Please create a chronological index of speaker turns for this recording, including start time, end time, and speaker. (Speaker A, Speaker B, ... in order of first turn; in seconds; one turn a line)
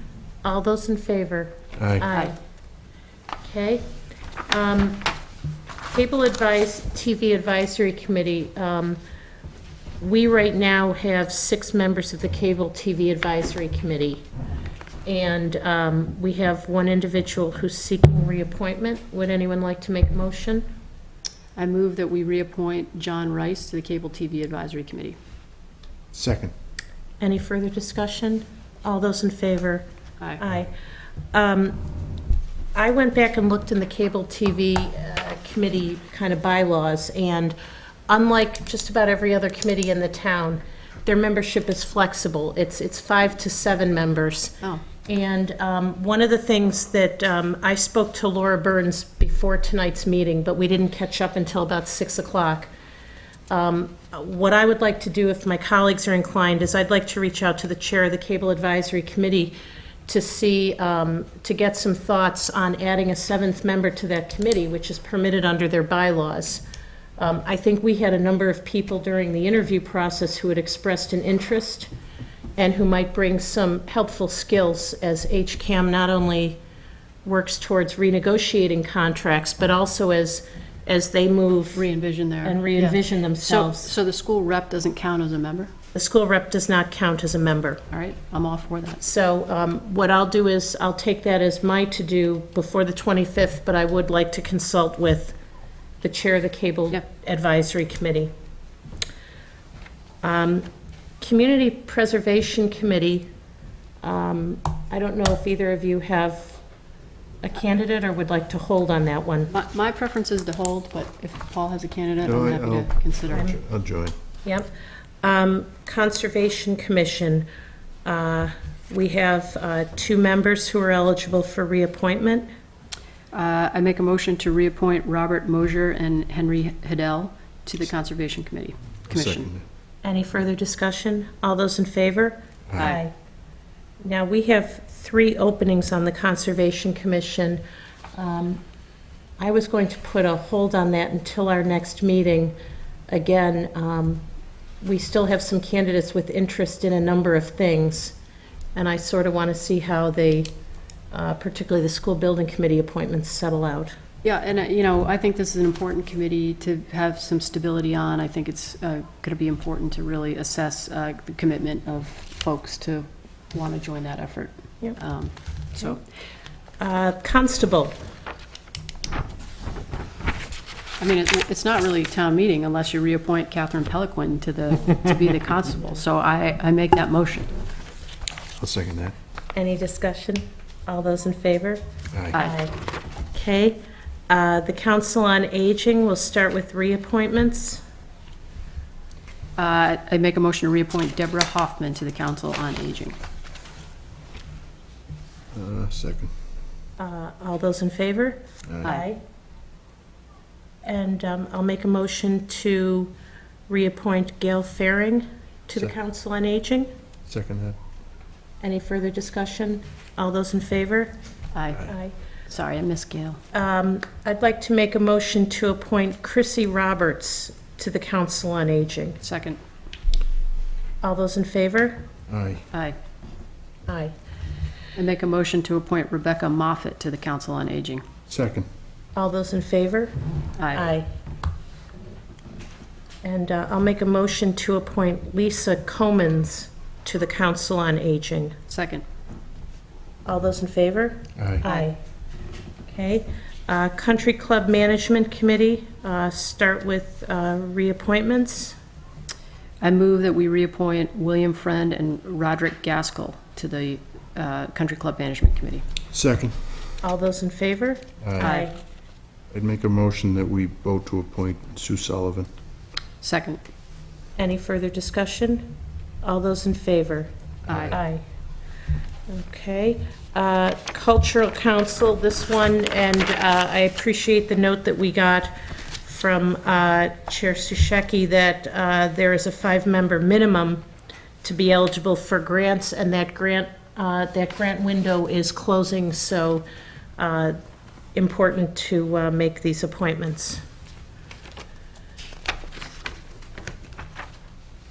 Speaker A: 0.4-2.4
Speaker B: 1.8-2.0
Speaker A: 3.4-3.9
Speaker A: 4.5-5.1
Speaker A: 5.9-9.0
Speaker A: 10.0-14.2
Speaker A: 15.1-20.6
Speaker C: 21.6-25.2
Speaker B: 26.1-26.5
Speaker A: 27.2-29.9
Speaker A: 30.4-30.7
Speaker A: 31.3-31.8
Speaker A: 32.7-37.5
Speaker A: 38.1-52.7
Speaker A: 53.5-59.5
Speaker A: 60.1-66.6
Speaker A: 67.2-71.9
Speaker A: 72.6-76.6
Speaker A: 77.2-81.8
Speaker C: 81.7-85.7
Speaker A: 82.4-83.9
Speaker A: 85.9-87.8
Speaker C: 87.9-89.0
Speaker A: 89.0-95.3
Speaker A: 96.0-98.3
Speaker A: 100.2-100.7
Speaker A: 101.2-103.3
Speaker A: 104.0-106.6
Speaker A: 107.4-109.5
Speaker C: 109.5-113.5
Speaker B: 112.2-114.1
Speaker A: 113.3-113.6
Speaker A: 114.4-114.7
Speaker A: 115.2-117.5
Speaker A: 118.0-122.5
Speaker C: 123.3-129.5
Speaker B: 129.1-129.6
Speaker A: 130.0-133.1
Speaker A: 134.0-137.6
Speaker A: 138.2-138.6
Speaker A: 139.4-142.5
Speaker A: 143.1-144.2
Speaker A: 144.8-148.1
Speaker A: 148.7-150.5
Speaker A: 151.1-153.9
Speaker C: 154.2-166.0
Speaker A: 166.8-167.9
Speaker C: 171.0-177.5
Speaker B: 178.6-179.1
Speaker A: 179.5-181.8
Speaker A: 182.3-182.8
Speaker A: 183.3-187.8
Speaker C: 189.6-193.2
Speaker B: 195.5-196.3
Speaker A: 197.0-199.2
Speaker B: 198.7-198.9
Speaker A: 200.8-203.1
Speaker A: 203.7-206.9
Speaker B: 207.3-207.8
Speaker A: 208.6-211.1
Speaker C: 211.5-211.9
Speaker A: 211.8-212.1
Speaker C: 212.5-213.4
Speaker A: 213.5-219.2
Speaker C: 219.2-219.6
Speaker A: 221.0-222.0
Speaker B: 222.3-222.6
Speaker A: 223.9-224.1
Speaker C: 224.9-228.0
Speaker B: 228.3-228.7
Speaker A: 229.2-230.1
Speaker C: 230.6-230.9
Speaker A: 230.7-231.1
Speaker A: 233.2-238.6
Speaker C: 238.7-239.0
Speaker A: 240.2-242.0
Speaker B: 241.3-241.6
Speaker C: 241.6-241.9
Speaker A: 242.9-248.8
Speaker C: 249.8-255.8
Speaker B: 256.1-256.8
Speaker A: 257.0-258.7
Speaker B: 258.2-258.5
Speaker C: 258.4-258.7
Speaker B: 259.5-262.5
Speaker C: 263.2-263.6
Speaker A: 264.4-265.7
Speaker A: 266.2-267.3
Speaker B: 267.7-267.9
Speaker C: 267.7-268.0
Speaker A: 267.8-268.2
Speaker A: 269.3-280.8
Speaker A: 281.4-286.6
Speaker A: 287.2-287.6
Speaker A: 288.1-290.6